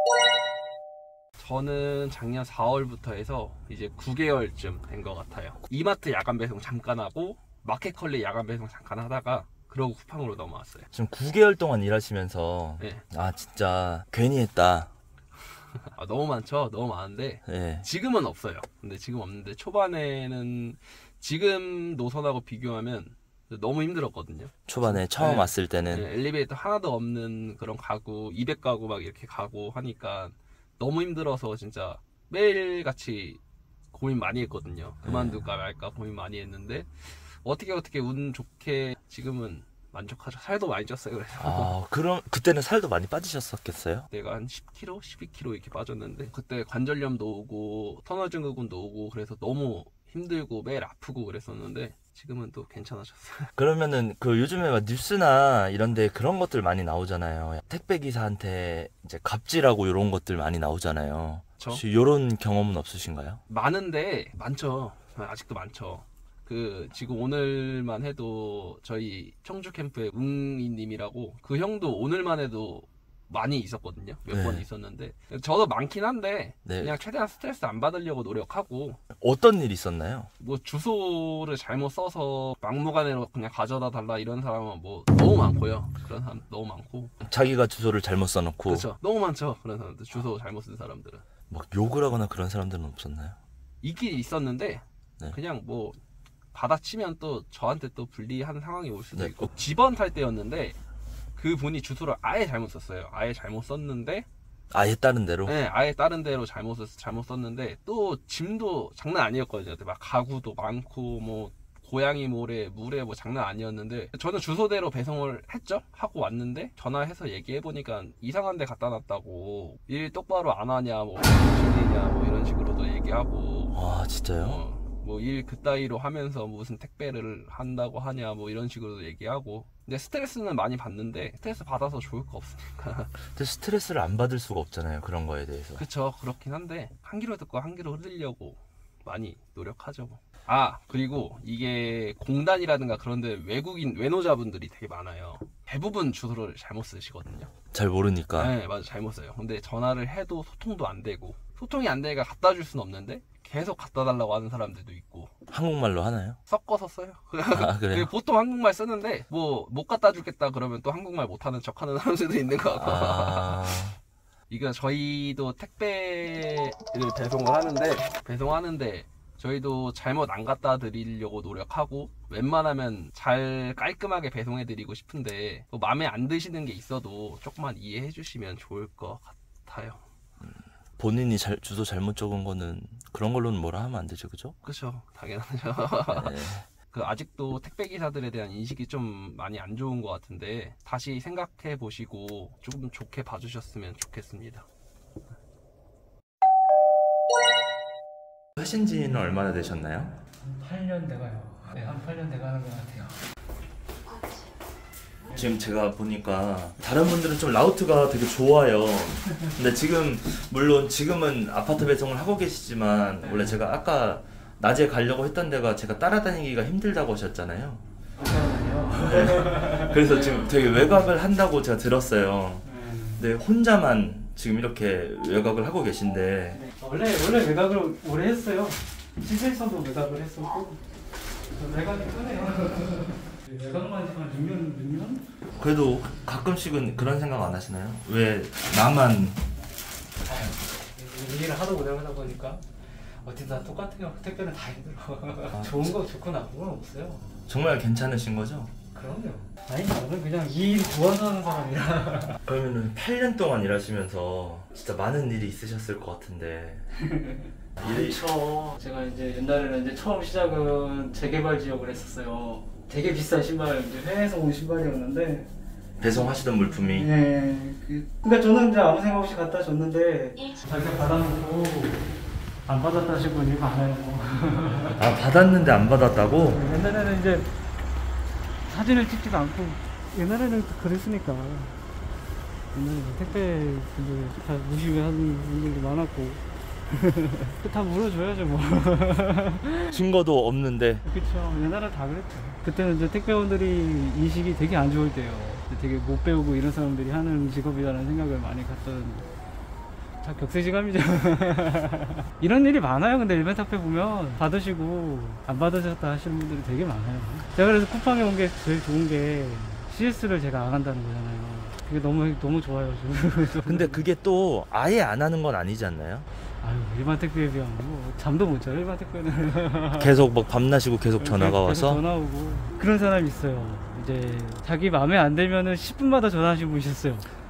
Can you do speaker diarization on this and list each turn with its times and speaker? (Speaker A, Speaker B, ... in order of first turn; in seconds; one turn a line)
Speaker A: 1.4-10.9
Speaker B: 10.9-14.9
Speaker A: 15.9-33.4
Speaker B: 17.4-17.9
Speaker B: 24.7-26.1
Speaker A: 33.9-41.8
Speaker B: 35.0-35.4
Speaker B: 41.4-44.1
Speaker A: 44.1-53.5
Speaker B: 53.6-63.4
Speaker A: 61.6-61.8
Speaker A: 63.5-79.0
Speaker B: 74.3-74.7
Speaker B: 76.7-77.0
Speaker B: 79.2-80.3
Speaker A: 80.4-87.1
Speaker B: 87.2-88.9
Speaker A: 88.7-91.2
Speaker B: 91.5-93.4
Speaker A: 93.8-96.0
Speaker A: 96.5-100.8
Speaker B: 99.1-99.5
Speaker A: 101.4-104.3
Speaker B: 104.7-105.6
Speaker A: 105.5-123.8
Speaker B: 123.7-124.6
Speaker A: 124.3-133.1
Speaker B: 133.3-135.8
Speaker A: 135.8-147.5
Speaker B: 147.7-148.5
Speaker A: 148.4-155.3
Speaker B: 155.5-156.4
Speaker A: 156.5-163.9
Speaker B: 157.5-158.1
Speaker B: 162.7-164.0
Speaker A: 164.5-180.0
Speaker B: 180.4-184.6
Speaker A: 184.6-194.7
Speaker B: 186.1-186.7
Speaker B: 198.6-200.2
Speaker C: 200.4-203.2
Speaker B: 205.3-217.8
Speaker C: 213.2-213.6
Speaker C: 218.2-220.5
Speaker B: 218.9-222.7
Speaker C: 222.7-223.2
Speaker B: 223.2-226.6
Speaker C: 226.5-230.8
Speaker C: 231.5-235.2
Speaker B: 235.6-239.4
Speaker C: 240.3-247.3
Speaker B: 245.5-245.9
Speaker B: 247.5-248.7
Speaker C: 248.9-252.4
Speaker B: 252.5-256.9
Speaker C: 257.0-265.5
Speaker B: 257.8-258.2
Speaker B: 266.0-267.1
Speaker C: 266.8-272.1
Speaker C: 272.7-275.0
Speaker B: 275.0-276.6
Speaker C: 276.4-277.5
Speaker C: 278.7-281.8
Speaker C: 282.7-289.9
Speaker B: 289.9-291.0
Speaker C: 291.1-299.3
Speaker C: 300.2-314.0
Speaker B: 313.5-316.3
Speaker C: 316.6-320.1
Speaker B: 320.0-322.0
Speaker C: 321.2-327.3